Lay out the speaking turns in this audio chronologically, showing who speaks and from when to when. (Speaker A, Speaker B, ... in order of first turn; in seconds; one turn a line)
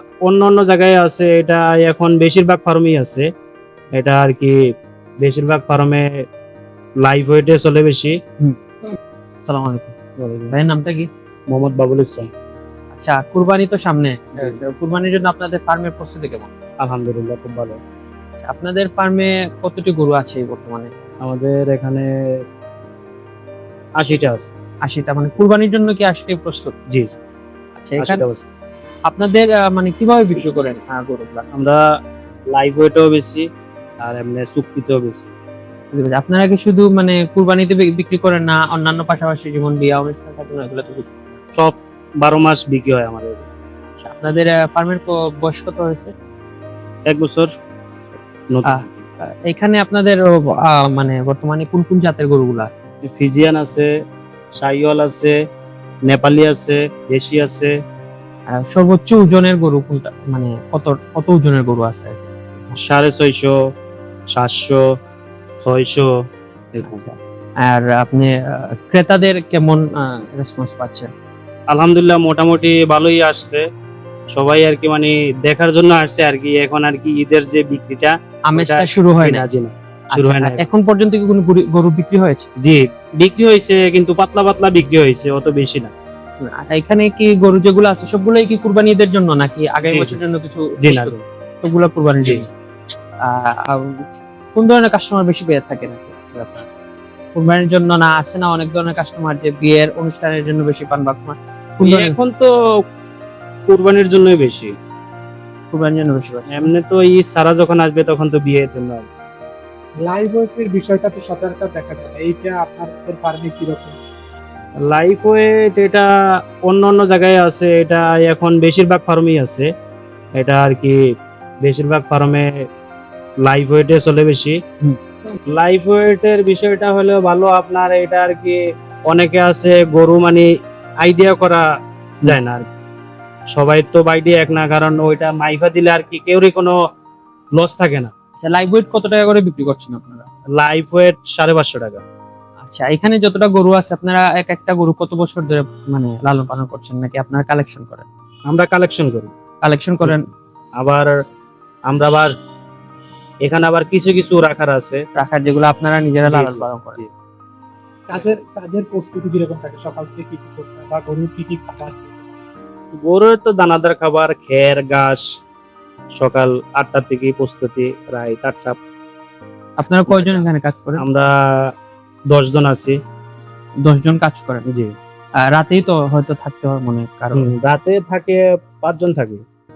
Speaker A: 0.2-3.3
Speaker A: 3.9-4.6
Speaker A: 5.2-6.1
Speaker A: 7.0-8.2
Speaker B: 9.4-9.9
Speaker A: 10.2-10.7
Speaker B: 10.5-11.1
Speaker A: 11.5-12.3
Speaker B: 12.9-16.5
Speaker A: 16.8-17.8
Speaker B: 18.4-20.9
Speaker A: 21.2-22.1
Speaker A: 24.0-24.5
Speaker B: 24.9-26.8
Speaker A: 26.9-27.2
Speaker B: 27.8-28.2
Speaker A: 28.0-28.4
Speaker B: 29.1-31.4
Speaker A: 31.5-31.8
Speaker A: 32.5-33.5
Speaker A: 34.0-35.3
Speaker B: 35.9-41.4
Speaker A: 41.5-43.5
Speaker B: 44.0-46.1
Speaker A: 47.1-47.5
Speaker A: 48.5-49.0
Speaker B: 49.5-52.7
Speaker A: 53.0-53.9
Speaker A: 54.6-55.4
Speaker A: 56.1-57.7
Speaker B: 58.5-62.3
Speaker A: 62.7-63.6
Speaker A: 64.3-64.8
Speaker A: 65.6-66.1
Speaker A: 66.7-67.0
Speaker B: 66.8-71.1
Speaker A: 71.7-73.6
Speaker A: 74.3-80.6
Speaker B: 78.5-79.5
Speaker B: 80.2-82.5
Speaker A: 82.6-85.9
Speaker B: 86.4-92.5
Speaker A: 89.8-90.2
Speaker A: 90.8-91.2
Speaker B: 93.2-96.7
Speaker B: 97.3-102.2
Speaker A: 101.8-102.5
Speaker A: 103.7-104.7
Speaker B: 105.7-106.7
Speaker A: 106.5-109.1
Speaker C: 110.0-114.0
Speaker A: 114.9-116.1
Speaker A: 116.7-119.7
Speaker A: 120.4-121.0
Speaker A: 121.6-122.5
Speaker A: 123.5-124.6
Speaker A: 125.5-130.5
Speaker A: 131.0-131.7
Speaker A: 132.2-132.7
Speaker A: 133.5-136.8
Speaker A: 137.6-138.1
Speaker B: 138.4-140.3
Speaker A: 140.6-142.0
Speaker B: 142.6-148.1
Speaker A: 148.5-149.3
Speaker B: 149.6-150.3
Speaker A: 150.8-151.1
Speaker A: 151.9-152.3
Speaker A: 153.4-155.0
Speaker B: 155.2-157.0
Speaker A: 156.3-157.1
Speaker C: 158.1-162.2
Speaker A: 162.9-165.3
Speaker A: 166.2-168.8
Speaker B: 169.8-171.0
Speaker A: 170.1-170.4
Speaker A: 171.0-171.7
Speaker A: 172.3-173.0
Speaker B: 173.8-174.6
Speaker A: 174.7-174.9
Speaker B: 175.5-177.5
Speaker A: 177.3-179.4